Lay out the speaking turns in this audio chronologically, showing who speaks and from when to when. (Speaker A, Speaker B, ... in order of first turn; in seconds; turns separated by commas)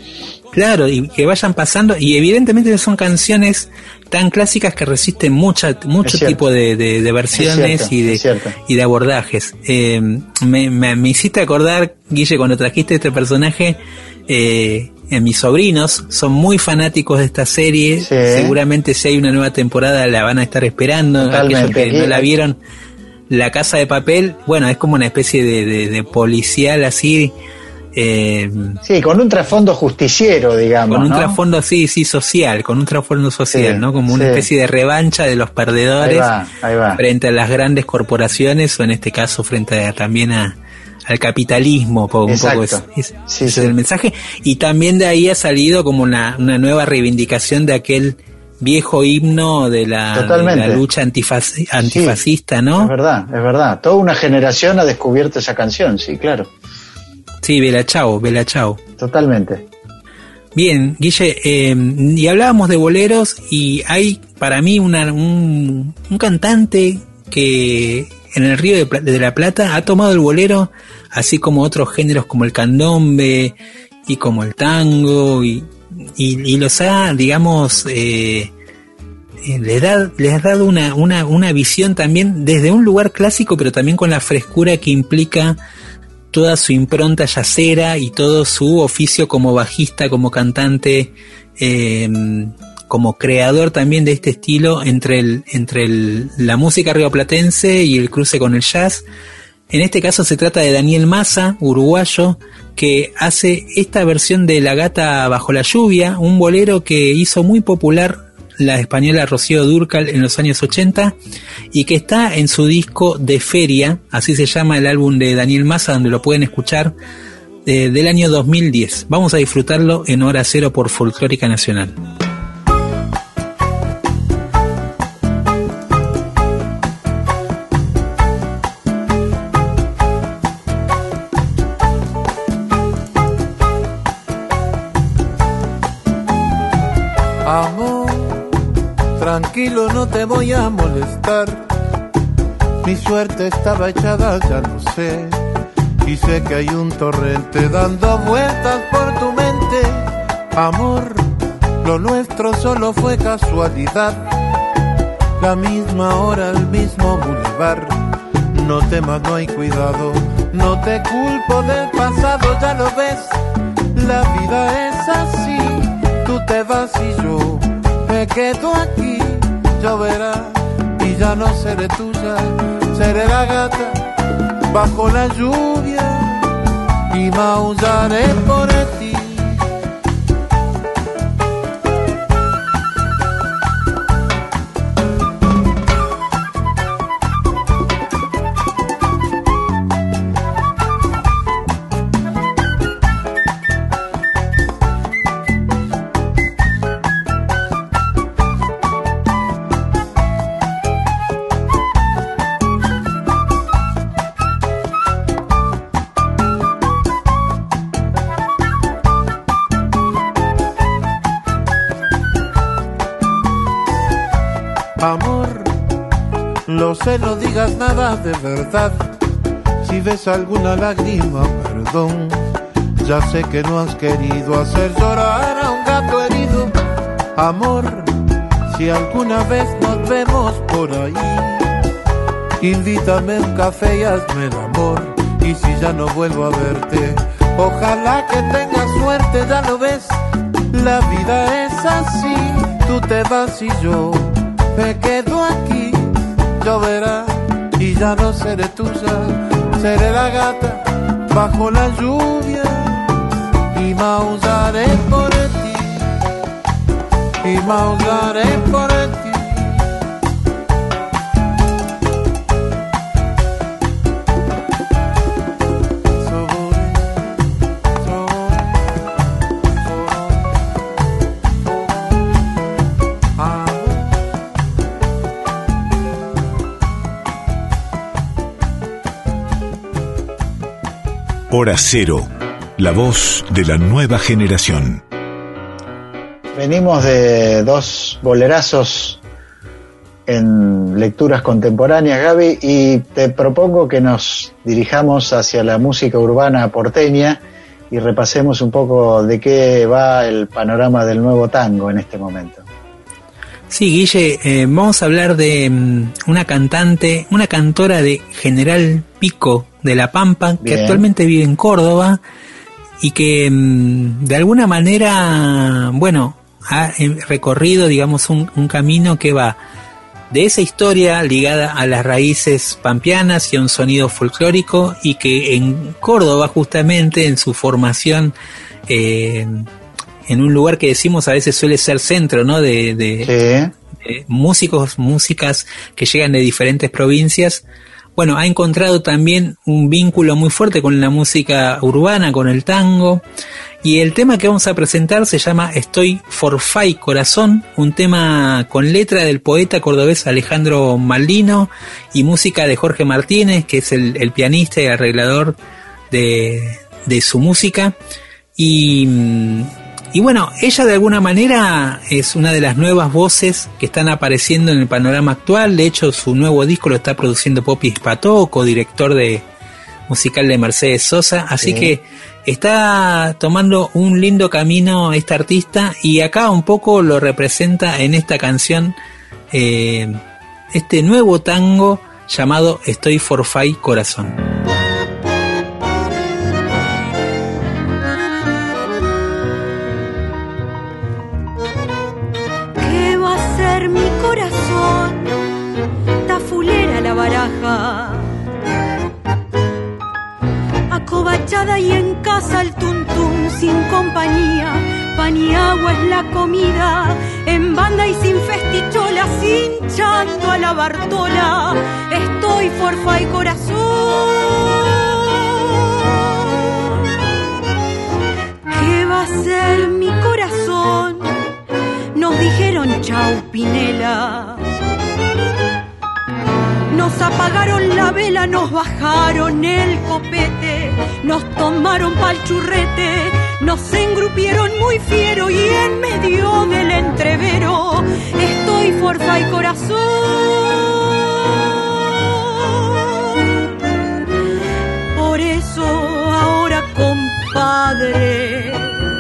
Speaker A: 0.5-22.6, Speaker B: 6.0-6.4, Speaker B: 7.3-8.6, Speaker B: 18.0-18.6, Speaker B: 21.2-22.3, Speaker A: 23.3-27.3, Speaker A: 27.9-28.8, Speaker B: 28.8-31.4, Speaker A: 30.9-36.3, Speaker B: 33.5-34.5, Speaker B: 36.0-37.0, Speaker A: 37.0-40.5, Speaker A: 41.1-52.9, Speaker B: 42.2-43.7, Speaker B: 50.1-50.8, Speaker B: 51.8-52.2, Speaker B: 52.8-56.5, Speaker A: 57.4-58.8, Speaker B: 59.0-59.6, Speaker A: 60.5-73.5, Speaker A: 74.1-78.5, Speaker A: 79.4-85.6, Speaker A: 86.3-99.0, Speaker A: 99.7-111.2, Speaker A: 111.7-116.9, Speaker A: 117.6-122.0, Speaker C: 137.4-138.5, Speaker C: 139.2-141.7, Speaker C: 142.8-145.4, Speaker C: 146.0-154.3, Speaker C: 155.4-163.4, Speaker C: 163.9-174.0, Speaker C: 174.7-176.5, Speaker C: 177.1-179.6, Speaker C: 215.0-215.8, Speaker C: 216.7-219.1, Speaker C: 219.8-222.4, Speaker C: 223.0-226.7, Speaker C: 227.3-228.2, Speaker C: 228.7-231.7, Speaker C: 232.6-240.2, Speaker C: 240.7-253.1, Speaker C: 253.7-256.1, Speaker C: 257.4-259.7, Speaker C: 266.2-267.1, Speaker C: 268.0-268.7, Speaker C: 273.4-274.1, Speaker D: 281.5-285.0, Speaker B: 286.5-289.2, Speaker B: 290.3-302.6, Speaker A: 303.7-312.2, Speaker B: 310.6-311.0, Speaker A: 313.0-319.6, Speaker A: 320.3-328.3, Speaker A: 328.9-329.7, Speaker A: 330.3-333.3, Speaker B: 333.2-333.7, Speaker A: 334.0-337.6, Speaker A: 338.1-343.2, Speaker A: 343.8-355.6, Speaker A: 356.1-357.9, Speaker A: 358.6-369.4, Speaker A: 370.1-378.9, Speaker B: 371.6-371.9, Speaker A: 379.5-380.2, Speaker A: 380.7-384.4, Speaker E: 392.8-395.4, Speaker E: 396.2-398.3, Speaker E: 400.9-416.6, Speaker E: 418.7-421.4, Speaker E: 422.1-424.8, Speaker E: 426.9-443.3, Speaker E: 445.1-449.0